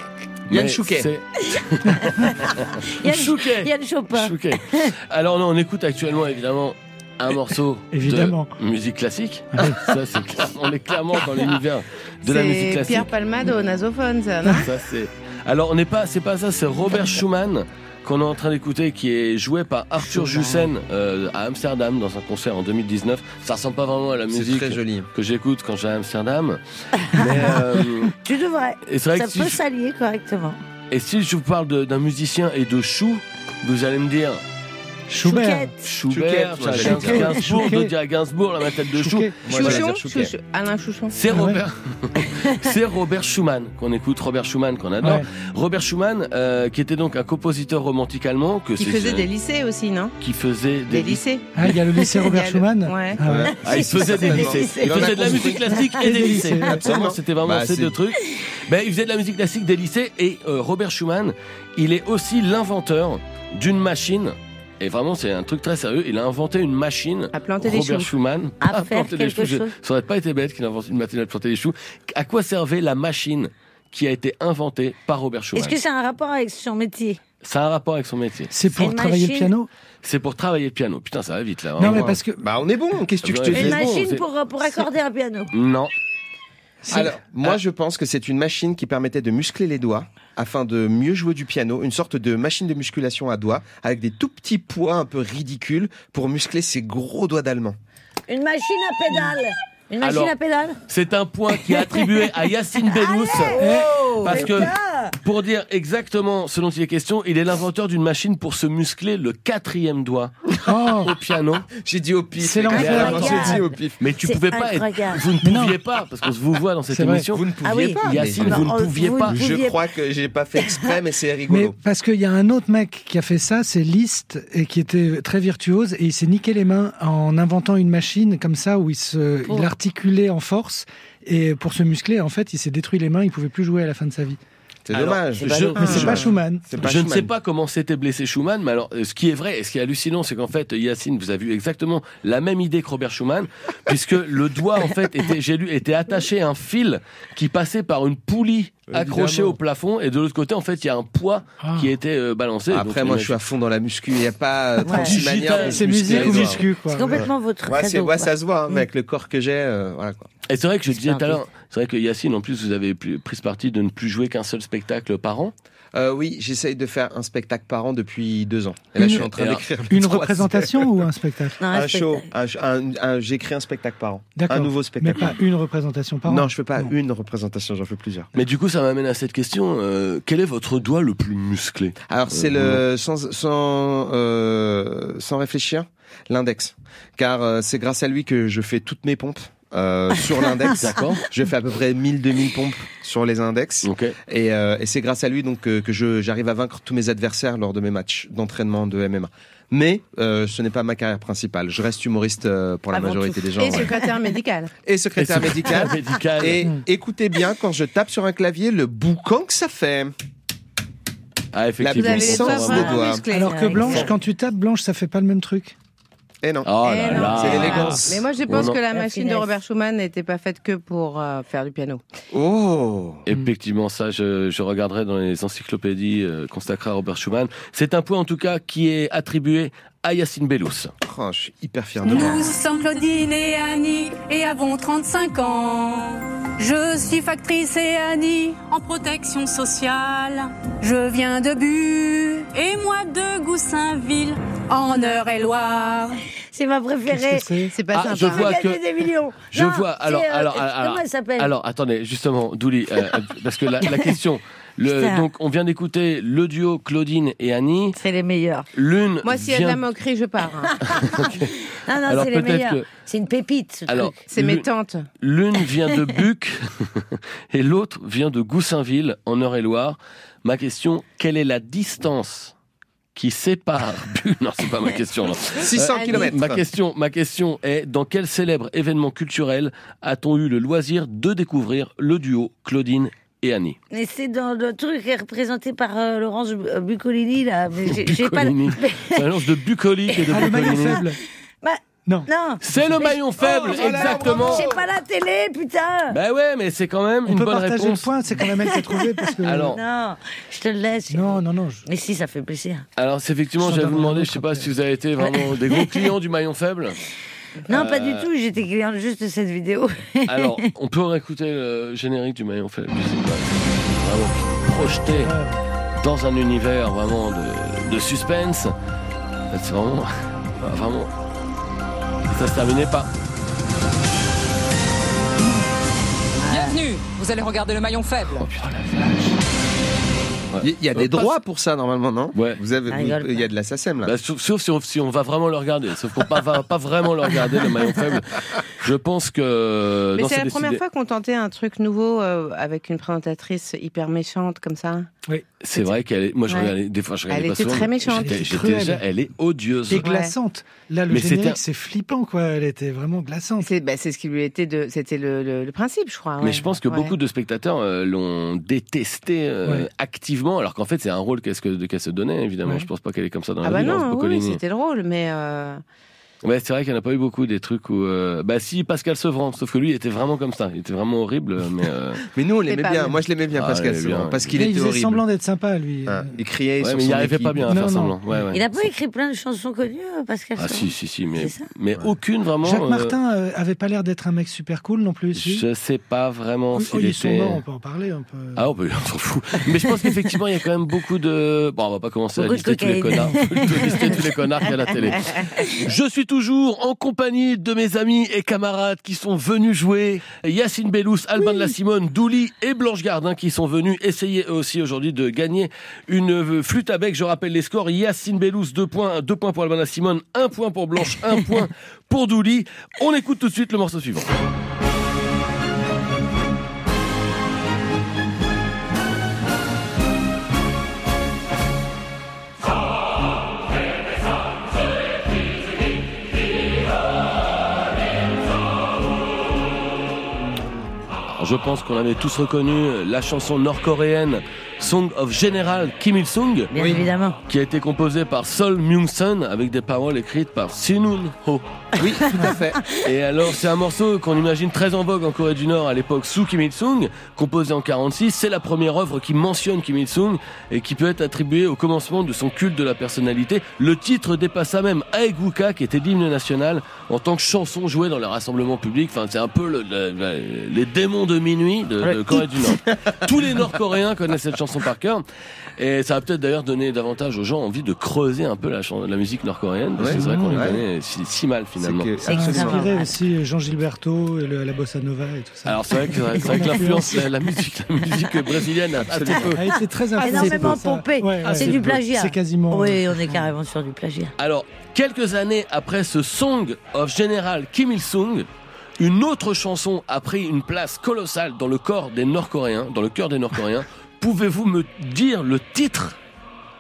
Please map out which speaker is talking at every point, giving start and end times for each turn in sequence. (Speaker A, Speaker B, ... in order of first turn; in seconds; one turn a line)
Speaker A: 0.5-1.1
Speaker B: 0.5-13.1
Speaker C: 2.0-4.9
Speaker D: 7.9-8.5
Speaker D: 9.5-9.8
Speaker E: 12.3-14.7
Speaker B: 14.5-28.1
Speaker A: 24.3-25.1
Speaker C: 28.1-30.6
Speaker B: 28.9-29.6
Speaker B: 30.9-34.4
Speaker D: 35.1-35.7
Speaker C: 35.2-35.9
Speaker B: 35.8-39.9
Speaker A: 36.1-37.5
Speaker D: 36.8-37.9
Speaker D: 39.0-39.4
Speaker A: 39.5-40.3
Speaker E: 39.5-41.2
Speaker B: 41.1-49.3
Speaker D: 41.3-41.6
Speaker D: 45.0-45.3
Speaker E: 48.8-50.1
Speaker B: 50.2-51.2
Speaker E: 50.9-53.2
Speaker D: 51.5-53.5
Speaker A: 53.2-57.9
Speaker C: 53.5-56.0
Speaker B: 53.6-75.8
Speaker D: 56.0-56.8
Speaker E: 67.3-68.1
Speaker C: 68.6-69.7
Speaker C: 75.5-77.2
Speaker B: 77.4-78.5
Speaker D: 78.5-79.7
Speaker C: 78.7-79.5
Speaker B: 80.0-82.1
Speaker D: 81.8-82.4
Speaker A: 81.8-84.0
Speaker B: 83.2-84.2
Speaker C: 83.5-85.5
Speaker B: 85.5-85.9
Speaker D: 86.8-87.1
Speaker A: 86.9-97.8
Speaker C: 98.3-100.8
Speaker B: 100.0-100.3
Speaker B: 100.9-111.7
Speaker C: 101.7-102.2
Speaker C: 102.9-105.2
Speaker D: 103.6-104.7
Speaker D: 110.7-111.1
Speaker A: 111.8-114.0
Speaker D: 112.4-113.6
Speaker B: 112.7-117.4
Speaker C: 112.7-113.7
Speaker C: 114.2-115.2
Speaker D: 115.4-115.8
Speaker D: 116.9-117.3
Speaker A: 117.3-121.8
Speaker C: 117.6-119.8
Speaker B: 118.0-119.4
Speaker D: 121.5-134.4
Speaker C: 129.5-129.7
Speaker A: 134.9-137.3
Speaker B: 134.9-136.2
Speaker C: 135.4-135.8
Speaker D: 135.8-136.7
Speaker E: 135.8-136.3
Speaker B: 136.8-153.4
Speaker A: 148.9-149.6
Speaker D: 151.6-151.9
Speaker A: 152.7-160.3
Speaker C: 154.8-155.1
Speaker B: 155.0-156.6
Speaker D: 155.5-157.2
Speaker C: 156.8-158.3
Speaker B: 160.5-165.5
Speaker C: 160.9-161.4
Speaker A: 165.9-171.0
Speaker D: 169.0-169.3
Speaker B: 169.4-169.6
Speaker D: 169.9-171.6
Speaker C: 171.6-172.3
Speaker A: 171.7-175.4
Speaker D: 174.4-176.9
Speaker A: 176.3-178.3
Speaker B: 178.3-182.8
Speaker A: 182.1-204.0
Speaker B: 190.7-191.2
Speaker B: 193.8-194.2
Speaker C: 202.9-203.3
Speaker E: 203.5-204.7
Speaker A: 204.8-210.1
Speaker B: 205.2-206.7
Speaker B: 211.5-213.0
Speaker A: 211.8-213.2
Speaker E: 211.9-214.1
Speaker D: 213.3-215.7
Speaker C: 213.3-214.1
Speaker A: 216.4-218.2
Speaker B: 216.7-218.8
Speaker E: 216.8-222.0
Speaker D: 217.3-218.0
Speaker C: 218.9-219.5
Speaker A: 222.3-223.2
Speaker B: 223.3-230.9
Speaker A: 231.0-232.6
Speaker F: 232.1-246.2
Speaker C: 246.5-247.5
Speaker D: 247.1-247.8
Speaker E: 247.7-248.5
Speaker B: 247.9-248.8
Speaker C: 248.1-251.5
Speaker B: 249.5-258.0
Speaker C: 253.9-254.1
Speaker C: 254.8-255.2
Speaker C: 258.0-258.7
Speaker B: 258.7-259.8
Speaker E: 259.2-260.9
Speaker C: 260.9-264.1
Speaker B: 260.9-261.6
Speaker B: 262.1-262.9
Speaker B: 263.9-264.7
Speaker E: 264.3-265.1
Speaker B: 265.2-272.5
Speaker B: 273.2-283.8
Speaker A: 275.6-276.6
Speaker E: 275.9-276.3
Speaker C: 283.9-289.2
Speaker B: 287.9-291.0
Speaker C: 290.2-291.0
Speaker D: 290.3-291.2
Speaker C: 291.6-296.2
Speaker B: 292.6-294.7
Speaker A: 293.4-294.9
Speaker B: 296.1-298.1
Speaker D: 297.3-299.8
Speaker C: 298.5-302.9
Speaker B: 299.4-299.8
Speaker D: 301.1-301.9
Speaker B: 303.0-307.0
Speaker D: 303.6-304.7
Speaker C: 305.2-306.1
Speaker C: 307.7-310.7
Speaker B: 307.7-308.3
Speaker B: 310.3-315.4
Speaker D: 315.1-315.6
Speaker B: 316.0-318.7
Speaker B: 319.5-321.1
Speaker B: 322.3-323.1
Speaker C: 326.4-326.8
Speaker G: 326.4-328.5
Speaker B: 328.4-329.4
Speaker B: 330.5-331.3
Speaker A: 330.6-334.1
Speaker B: 332.3-332.6
Speaker C: 332.9-333.5
Speaker B: 334.1-340.8
Speaker E: 340.2-345.1
Speaker B: 345.6-350.1
Speaker E: 347.3-348.5
Speaker D: 348.1-349.0
Speaker D: 349.9-353.7
Speaker E: 350.0-350.3
Speaker B: 351.1-351.6
Speaker E: 353.6-357.1
Speaker B: 356.4-364.6
Speaker E: 363.6-365.8
Speaker B: 366.4-372.2
Speaker A: 372.3-375.2
Speaker E: 372.7-373.2
Speaker B: 373.5-374.6
Speaker D: 374.6-376.3
Speaker A: 376.1-377.7
Speaker B: 376.8-378.6
Speaker D: 377.7-378.4
Speaker C: 378.5-381.6
Speaker B: 380.6-383.1
Speaker D: 382.6-385.6
Speaker B: 385.3-387.6
Speaker D: 386.7-388.6
Speaker B: 388.6-414.3
Speaker C: 392.4-394.3
Speaker B: 431.3-436.7
Speaker C: 436.7-437.4
Speaker A: 436.8-437.1
Speaker B: 437.5-441.6
Speaker A: 442.0-442.8
Speaker B: 443.0-465.2
Speaker C: 462.0-462.7
Speaker B: 465.8-472.1
Speaker A: 470.0-470.8
Speaker D: 470.1-470.8
Speaker A: 471.8-472.9
Speaker C: 472.2-473.1
Speaker D: 472.3-477.3
Speaker B: 475.7-479.7
Speaker D: 479.4-483.5
Speaker C: 480.2-484.3
Speaker B: 480.3-480.7
Speaker B: 481.4-481.9
Speaker B: 484.4-488.5
Speaker B: 489.0-496.2